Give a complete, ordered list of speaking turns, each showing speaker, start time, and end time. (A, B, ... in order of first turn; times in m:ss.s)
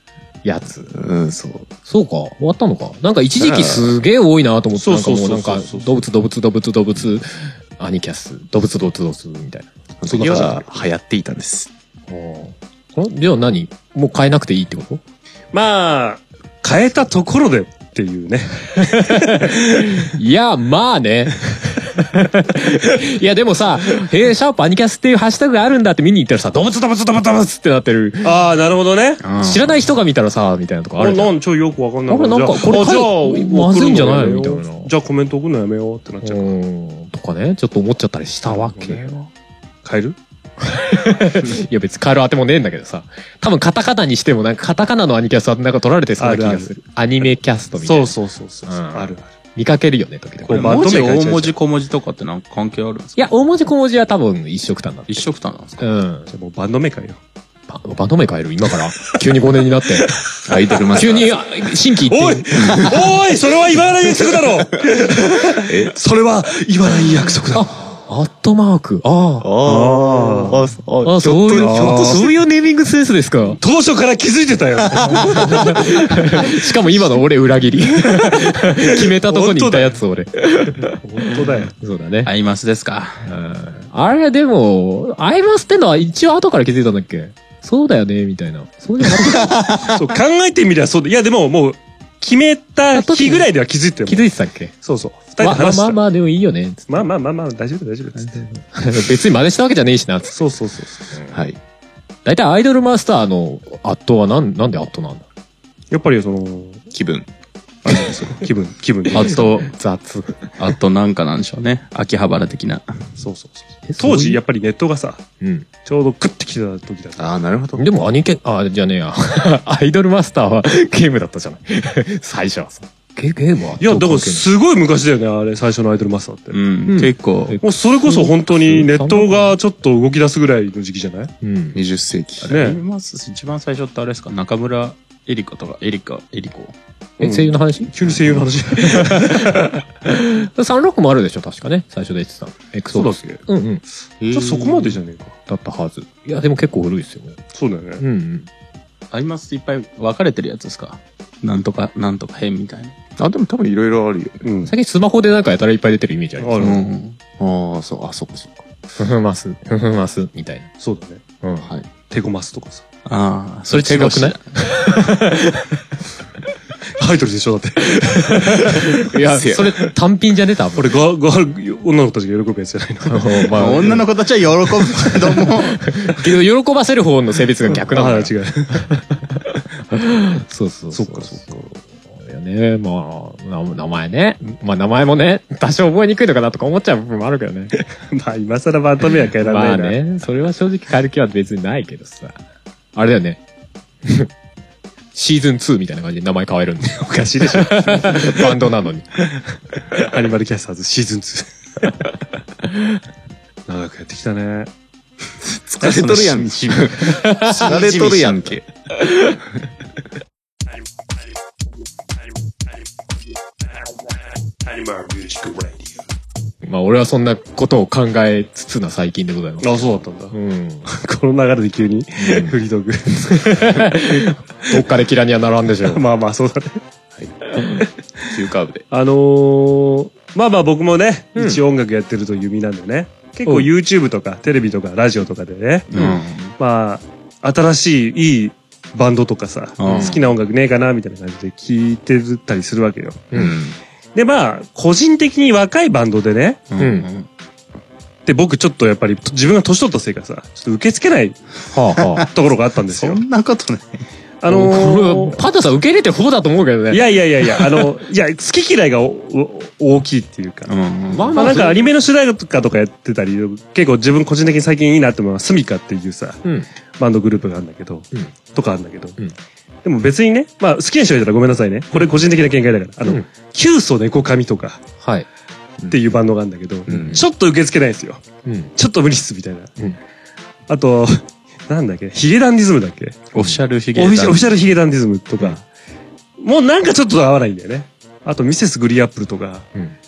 0:00.4-0:00.9 A
0:00.9-0:01.7 B
0:01.8-0:10.6 A
0:03.4-0:03.9 B
0:04.8-0:06.0 C
0:10.0-0:11.7 B
0:12.1-0:15.0 A
0:15.5-0:20.1 C
0:18.9-0:28.3 A
0:28.2-0:29.2 C
0:29.2-0:29.8 D
0:29.4-0:31.3 A
0:31.0-0:36.5 C
0:32.1-0:34.9 A
0:36.2-0:39.2 A
0:38.5-0:39.2 C
0:39.8-0:40.2 C
0:40.6-0:48.1 A
0:46.2-0:46.7 C
0:47.8-0:49.3 C
0:48.7-0:50.7 A
0:50.5-0:53.2 D
0:50.5-0:51.5 C
0:53.2-0:55.3 A
0:55.1-0:55.8 D
0:55.8-0:56.3 A
0:56.3-0:57.2 C
0:57.7-1:00.1 A
1:00.4-1:01.3 B
1:00.9-1:02.5 A
1:02.1-1:07.7 C
1:05.7-1:05.9 B
1:07.5-1:09.5 A
1:09.4-1:12.2 B
1:09.6-1:10.6 C
1:11.0-1:13.6 A
1:11.4-1:12.3 C
1:13.6-1:16.5 C
1:15.1-1:22.3 A
1:18.2-1:20.0 C
1:21.0-1:21.7 C
1:22.2-1:23.3 D
1:23.2-1:29.6 A
1:29.6-1:29.8 D
1:29.8-1:34.3 C
1:32.9-1:33.5 A
1:34.1-1:34.7 A
1:34.8-1:36.0 C
1:35.4-1:37.1 A
1:36.9-1:38.4 C
1:38.2-1:40.4 A
1:40.3-1:41.1 C
1:41.3-1:41.6 B
1:42.2-1:45.2 A
1:45.9-1:46.8 C
1:46.9-1:47.3 B
1:47.8-1:49.4 C
1:49.1-1:49.7 D
1:49.2-1:50.4 A
1:50.6-1:53.0 D
1:53.2-1:55.2 C
1:53.9-1:54.4 A
1:55.4-1:55.6 A
1:55.8-1:57.3 C
1:57.2-1:57.8 B
1:57.8-2:04.4 A
2:03.8-2:06.6 C
2:06.5-2:07.6 D
2:06.9-2:09.5 A
2:07.6-2:11.3 C
2:11.4-2:11.8 A
2:11.7-2:12.5 B
2:12.4-2:16.7 D
2:12.5-2:12.8 C
2:17.2-2:19.8 C
2:17.2-2:18.1 A
2:18.9-2:19.5 A
2:20.0-2:23.8 A
2:22.9-2:23.4 C
2:24.2-2:25.0 B
2:24.3-2:25.3 C
2:25.5-2:27.4 A
2:27.5-2:28.0 C
2:28.0-2:28.5 A
2:29.1-2:32.9 D
2:33.2-2:34.4 B
2:34.4-2:34.7 C
2:34.7-2:36.7 A
2:36.4-2:36.8 C
2:36.6-2:37.2 D
2:37.4-2:38.6 B
2:39.0-2:40.7 A
2:40.8-2:41.2 C
2:41.4-2:41.7 A
2:42.1-2:42.8 C
2:43.0-2:44.4 D
2:43.7-2:45.6 A
2:47.0-2:49.0 C
2:48.3-2:50.9 A
2:49.3-2:49.8 B
2:50.8-2:53.9 C
2:53.0-2:54.0 A
2:53.5-2:55.8 D
2:55.8-2:59.2 A
2:57.9-2:58.8 C
2:59.9-3:07.7 A
3:00.9-3:01.6 C
3:07.8-3:10.0 C
3:09.4-3:12.3 A
3:12.9-3:13.4 A
3:15.1-3:19.0 A
3:16.9-3:18.5 C
3:19.9-3:21.5 C
3:23.7-3:24.7 C
3:25.6-3:28.6 B
3:25.8-3:28.6 D
3:27.2-3:27.5 A
3:34.6-3:35.9 C
3:36.6-3:40.8 A
3:39.6-3:40.3 C
3:40.8-3:44.0 C
3:42.2-3:42.5 A
3:43.3-3:46.0 A
3:45.8-3:46.8 C
3:48.2-3:48.8 B
3:48.9-4:03.3 C
3:55.9-3:56.5 D
3:59.8-4:00.2 D
3:59.9-4:00.2 A
4:03.3-4:03.8 B
4:04.1-4:06.6 C
4:06.7-4:07.3 D
4:06.8-4:07.1 A
4:08.2-4:11.4 C
4:11.7-4:12.3 A
4:12.3-4:13.2 C
4:12.9-4:14.0 D
4:14.4-4:15.4 C
4:14.5-4:17.0 A
4:16.9-4:20.8 C
4:20.7-4:21.4 D
4:21.1-4:21.8 A
4:21.4-4:26.4 C
4:27.0-4:29.2 C
4:29.8-4:34.8 C
4:35.8-4:36.2 B
4:35.9-4:38.2 C
4:36.9-4:37.2 B
4:38.4-4:38.7 A
4:38.8-4:39.7 C
4:40.7-4:43.2 C
4:43.3-4:44.5 D
4:44.0-4:45.6 C
4:46.4-4:49.7 C